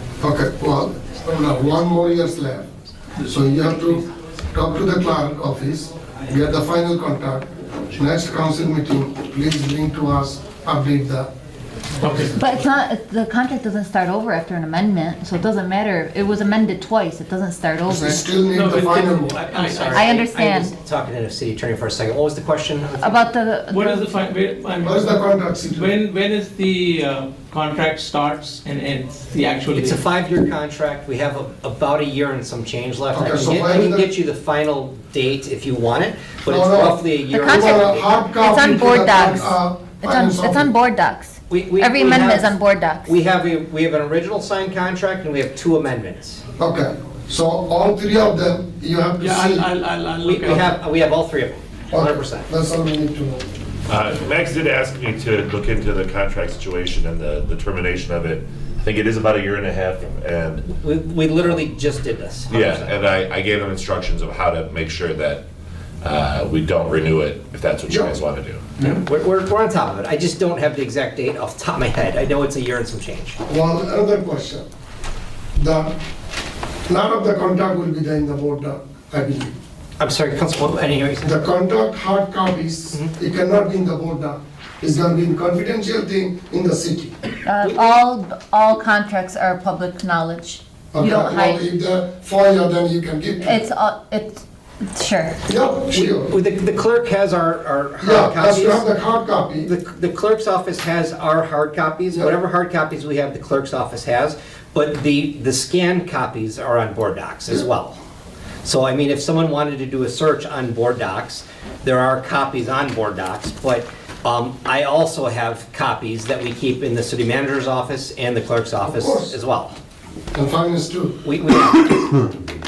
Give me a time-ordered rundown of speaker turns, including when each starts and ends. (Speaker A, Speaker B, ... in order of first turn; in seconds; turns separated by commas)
Speaker A: 0.2-2.7, Speaker A: 3.2-11.3, Speaker B: 12.0-12.3, Speaker A: 12.1-12.5, Speaker C: 12.3-18.3, Speaker A: 17.9-19.4, Speaker B: 18.5-20.2, Speaker D: 19.5-23.2, Speaker C: 19.9-20.7, Speaker C: 23.0-24.2, Speaker B: 23.7-30.0, Speaker A: 24.8-25.9, Speaker D: 29.7-38.2, Speaker A: 33.1-34.1, Speaker A: 36.5-37.0, Speaker C: 37.3-43.2, Speaker A: 37.5-40.7, Speaker D: 41.5-42.5, Speaker D: 43.1-46.4, Speaker A: 46.6-49.7, Speaker B: 49.2-50.8, Speaker D: 50.2-52.5, Speaker A: 51.9-53.4, Speaker E: 53.9-60.7, Speaker D: 60.7-63.0, Speaker E: 62.5-65.4, Speaker E: 66.0-68.6, Speaker A: 67.9-68.2, Speaker D: 69.0-73.4, Speaker A: 73.5-74.7, Speaker A: 75.5-76.0, Speaker A: 76.9-79.6, Speaker D: 80.0-81.4, Speaker A: 81.2-87.2, Speaker C: 87.4-91.7, Speaker A: 90.9-93.6, Speaker C: 93.4-95.4, Speaker A: 95.5-96.3, Speaker D: 95.9-99.0, Speaker A: 98.0-99.7, Speaker D: 99.6-108.0, Speaker D: 108.6-119.8, Speaker A: 118.9-119.4, Speaker A: 120.3-121.2, Speaker D: 121.2-122.3